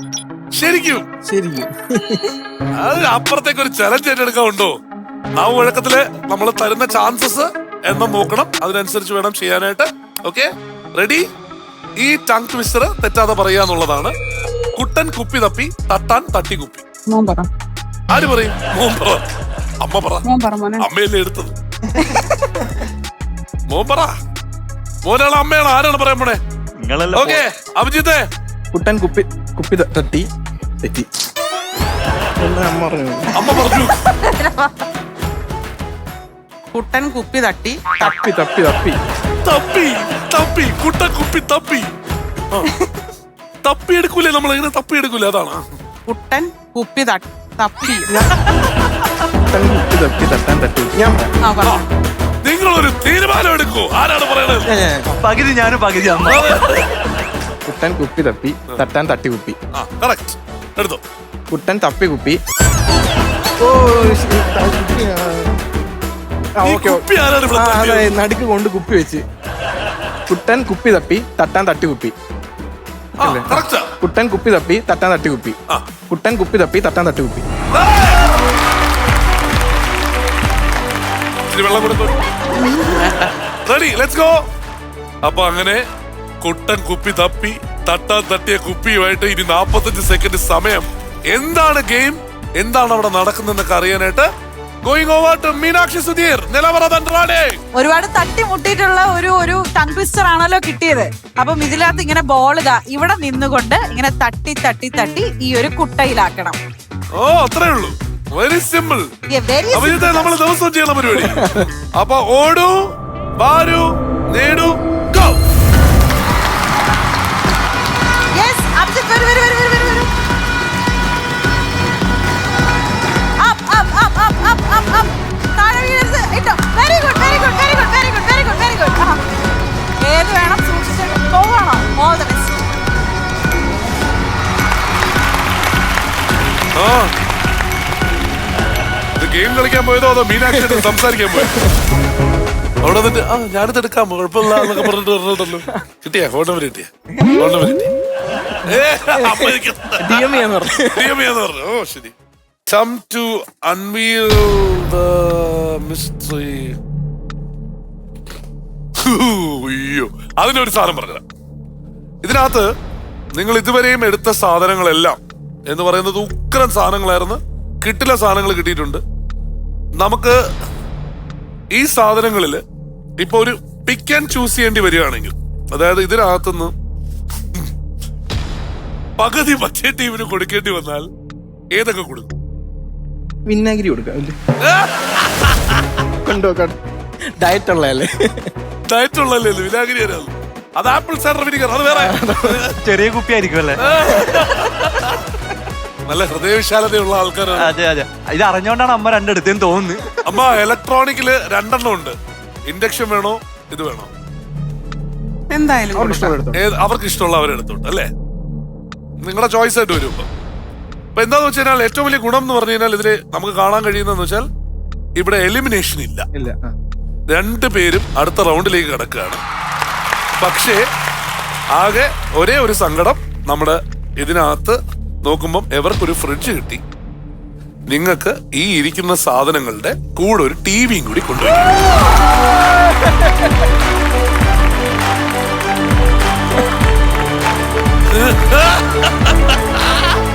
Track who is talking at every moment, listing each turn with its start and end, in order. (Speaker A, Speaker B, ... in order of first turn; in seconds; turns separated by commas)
Speaker A: 0.5-1.1, Speaker B: 1.3-2.3, Speaker A: 2.8-4.8, Speaker A: 5.3-11.2, Speaker A: 12.0-14.1, Speaker A: 14.7-16.8, Speaker C: 17.1-17.5, Speaker A: 18.1-19.2, Speaker A: 19.8-20.2, Speaker C: 20.2-20.9, Speaker A: 20.8-21.6, Speaker A: 23.7-24.1, Speaker A: 25.0-26.4, Speaker D: 26.8-27.4, Speaker A: 27.1-28.2, Speaker B: 28.7-30.2, Speaker B: 32.4-33.5, Speaker A: 33.3-34.0, Speaker E: 34.0-34.8, Speaker C: 36.7-38.0, Speaker B: 38.0-39.0, Speaker A: 39.4-41.9, Speaker A: 43.6-45.6, Speaker C: 46.1-48.1, Speaker B: 48.0-48.4, Speaker B: 49.5-51.3, Speaker C: 51.4-51.9, Speaker A: 52.4-54.7, Speaker B: 54.7-55.1, Speaker D: 55.1-56.6, Speaker A: 56.2-56.9, Speaker B: 57.6-59.5, Speaker A: 59.7-61.0, Speaker B: 61.5-62.4, Speaker B: 63.6-65.5, Speaker B: 66.6-69.2, Speaker A: 66.6-68.1, Speaker B: 70.3-72.1, Speaker A: 73.2-73.9, Speaker B: 73.2-75.5, Speaker B: 76.1-77.4, Speaker A: 77.7-78.2, Speaker A: 81.5-82.2, Speaker C: 82.5-83.3, Speaker A: 83.6-84.4, Speaker A: 85.2-85.8, Speaker A: 86.4-94.3, Speaker A: 94.8-97.6, Speaker E: 97.7-106.6, Speaker A: 107.1-109.1, Speaker E: 109.3-110.3, Speaker A: 109.7-115.4, Speaker B: 111.2-111.7, Speaker E: 118.4-120.1, Speaker E: 123.4-129.2, Speaker E: 130.0-132.9, Speaker A: 136.7-137.1, Speaker A: 139.2-141.5, Speaker B: 140.5-141.7, Speaker A: 142.8-147.8, Speaker B: 144.4-144.9, Speaker A: 148.6-152.1, Speaker B: 149.1-151.2, Speaker A: 152.7-156.8, Speaker A: 159.0-161.2, Speaker A: 162.2-162.7, Speaker A: 163.3-169.0, Speaker A: 170.0-170.4, Speaker A: 171.7-172.6, Speaker A: 173.2-176.7, Speaker A: 179.2-181.1, Speaker A: 181.7-182.3, Speaker B: 183.5-184.3, Speaker A: 184.6-185.8, Speaker B: 186.2-186.8, Speaker B: 187.4-188.5, Speaker A: 188.9-192.2, Speaker B: 191.9-192.6, Speaker D: 192.5-194.4, Speaker A: 193.8-195.1, Speaker A: 196.1-197.8, Speaker D: 197.5-200.4, Speaker A: 200.2-204.1, Speaker C: 205.5-206.4, Speaker B: 205.9-206.6, Speaker A: 206.5-208.1, Speaker A: 209.2-210.3, Speaker A: 211.2-214.4, Speaker A: 215.2-216.3, Speaker B: 216.3-216.7, Speaker A: 217.3-219.4, Speaker A: 220.4-220.8, Speaker A: 221.7-226.8, Speaker A: 227.9-231.7, Speaker A: 238.1-239.8